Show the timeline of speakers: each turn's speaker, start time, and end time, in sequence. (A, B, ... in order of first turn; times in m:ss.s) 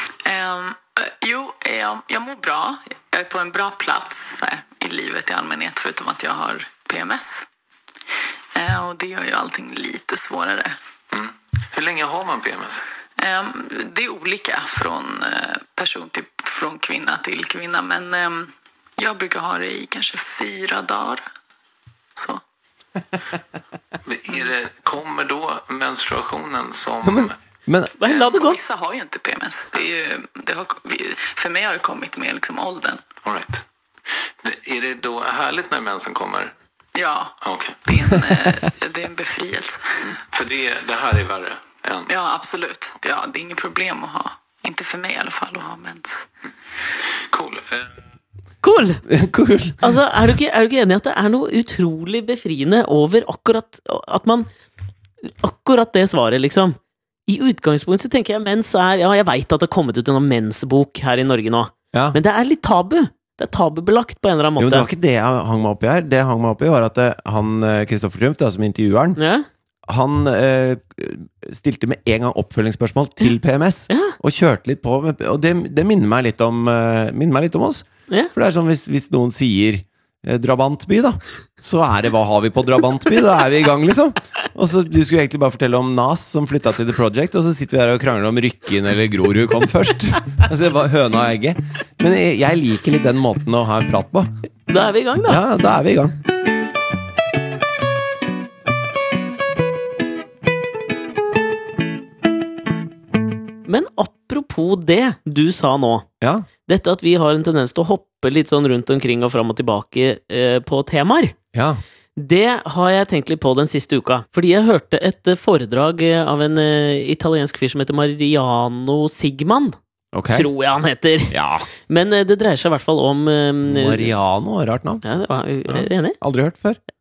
0:00.2-0:07.4 A
0:08.6-0:10.8 A
0:11.1-0:12.8 B
0:13.2-0:21.2 A
0:22.2-0:22.4 A
0:24.0-0:27.4 B
0:27.0-0:27.9 C
0:28.0-0:28.6 D
0:28.0-0:33.1 A
0:33.2-0:33.6 B
0:34.4-0:36.5 B
0:37.0-0:40.2 A
0:37.4-0:37.9 B
0:40.3-0:42.1 B
0:42.1-0:46.2 A
0:47.3-0:47.9 B
0:48.6-0:49.0 D
0:49.1-0:50.0 C
0:49.8-0:54.5 D
0:55.4-1:04.9 D
1:01.9-1:02.2 C
1:04.6-1:09.2 C
1:09.2-1:09.5 D
1:09.9-1:34.3 C
1:13.9-1:14.2 D
1:34.7-1:35.4 D
1:35.3-1:36.2 C
1:43.7-1:46.1 D
1:46.2-1:46.5 C
1:46.7-1:51.4 D
1:51.5-1:51.8 C
1:52.2-1:59.8 D
2:00.1-2:00.5 C
2:00.3-2:04.1 D
2:01.3-2:01.7 C
2:03.6-2:05.0 C
2:05.0-2:06.2 D
2:05.7-2:06.8 C